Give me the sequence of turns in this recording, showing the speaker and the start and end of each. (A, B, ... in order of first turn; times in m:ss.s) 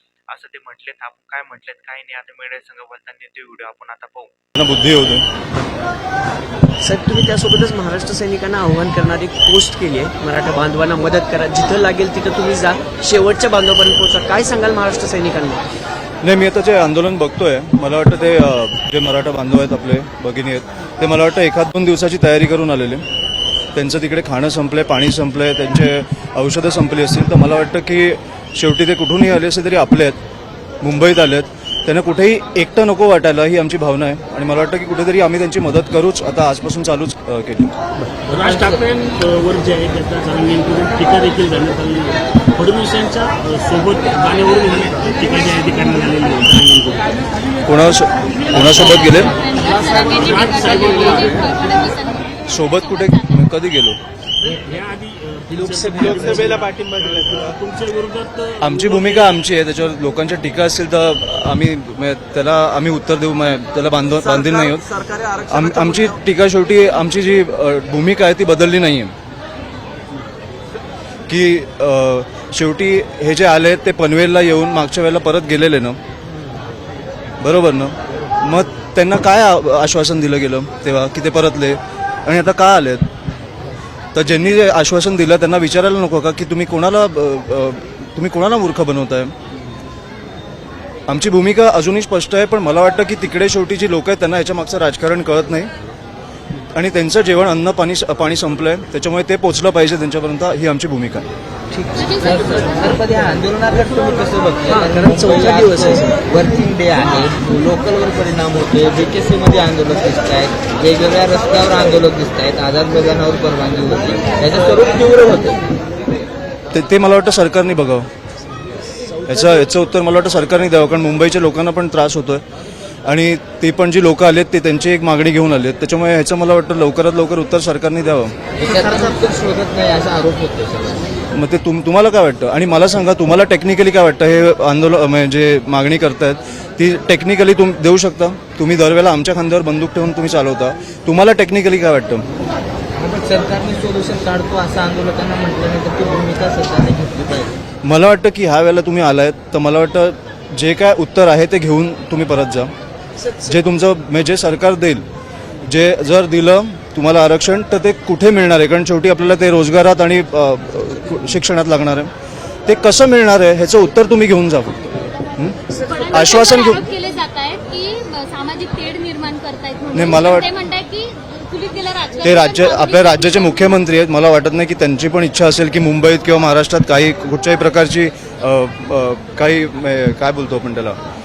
0:00.3-0:04.3 A
0:04.6-0:05.3 B
0:06.8-0:15.6 C
0:16.2-0:23.0 B
0:23.8-0:30.2 B
0:30.8-0:37.8 B
0:38.1-0:47.3 D
0:47.7-0:49.3 B
0:48.6-0:53.5 E
0:49.9-0:51.5 D
0:52.5-0:54.0 B
0:54.4-0:59.3 D
0:55.8-0:56.4 C
0:58.6-1:04.9 B
1:04.3-1:06.1 C
1:05.5-1:09.1 B
1:11.3-1:16.0 B
1:17.4-1:23.1 B
1:24.2-1:29.3 B
1:31.1-1:35.7 B
1:36.7-1:41.3 B
1:41.7-1:42.1 C
1:42.0-1:42.7 E
1:42.2-1:55.6 F
1:44.7-1:46.2 C
1:56.7-1:58.1 B
1:59.3-2:02.4 B
2:03.0-2:08.4 B
2:08.6-2:11.1 F
2:11.3-2:22.2 B
2:23.0-2:27.5 F
2:27.8-2:32.7 B
2:33.4-2:35.0 B
2:35.6-2:42.1 B
2:42.7-2:46.8 B
2:45.8-2:53.7 E
2:49.9-2:50.5 B
2:52.2-3:01.0 B